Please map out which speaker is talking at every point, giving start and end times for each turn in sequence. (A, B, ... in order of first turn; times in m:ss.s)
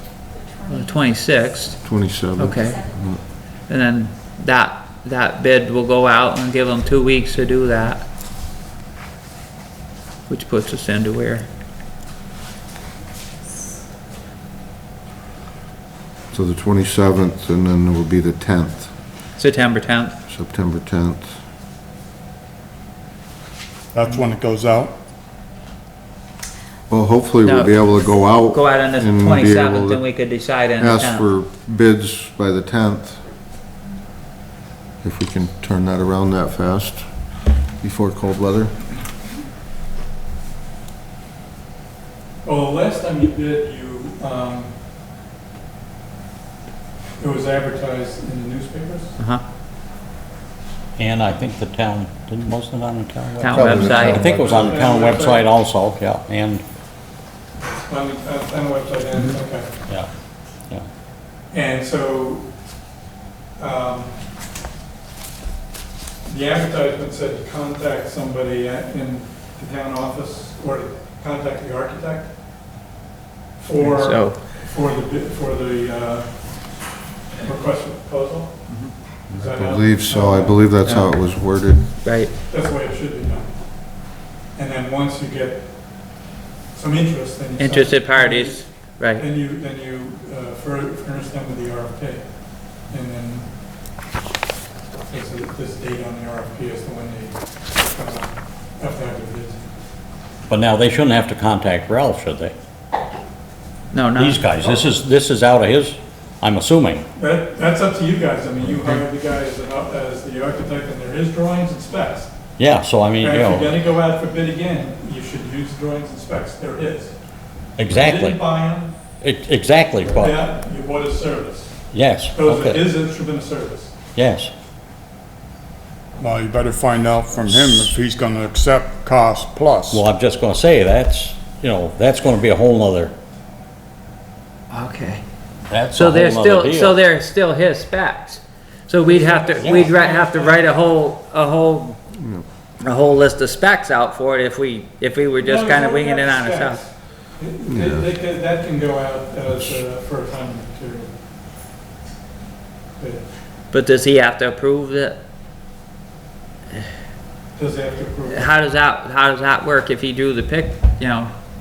0:00.7-0:08.1 A
0:01.8-0:03.2 B
0:10.3-0:11.5 A
0:16.3-0:18.9 B
0:19.4-0:20.2 A
0:20.3-0:21.3 B
0:23.9-0:24.9 C
0:26.9-0:30.0 B
0:27.4-0:31.3 A
0:30.8-0:33.2 B
0:35.0-0:38.8 B
0:42.4-0:44.7 D
0:47.2-0:49.2 D
0:49.2-0:49.4 A
0:51.0-0:56.6 E
0:53.4-0:54.2 A
0:53.5-0:54.8 B
0:54.1-0:55.5 D
0:57.9-0:59.7 D
1:01.5-1:02.5 D
1:03.6-1:04.1 D
1:06.2-1:12.3 D
1:13.6-1:16.9 D
1:13.8-1:14.4 A
1:17.4-1:18.7 D
1:19.3-1:20.9 D
1:19.5-1:21.9 B
1:20.8-1:22.3 A
1:22.4-1:33.5 D
1:27.6-1:29.2 A
1:35.1-1:39.7 D
1:40.5-1:42.5 E
1:43.9-1:44.5 A
1:44.2-1:47.0 E
1:47.2-1:52.3 D
1:52.6-1:53.8 E
1:53.2-1:57.1 D
1:57.8-1:58.4 E
1:57.9-1:59.0 D
1:59.2-2:00.4 E
2:00.2-2:01.8 D
2:01.9-2:02.9 E
2:02.3-2:03.9 D
2:04.1-2:04.5 E
2:06.2-2:10.0 C
2:07.4-2:07.9 E
2:09.9-2:13.1 E
2:14.7-2:15.2 A
2:15.7-2:17.0 E
2:15.9-2:22.0 A
2:19.0-2:20.9 D
2:19.6-2:19.9 E
2:22.2-2:22.4 B
2:22.8-2:26.8 A
2:25.4-2:31.1 D
2:27.7-2:28.0 B
2:33.0-2:33.3 D
2:33.7-2:35.2 A
2:37.6-2:38.5 D
2:38.3-2:41.3 A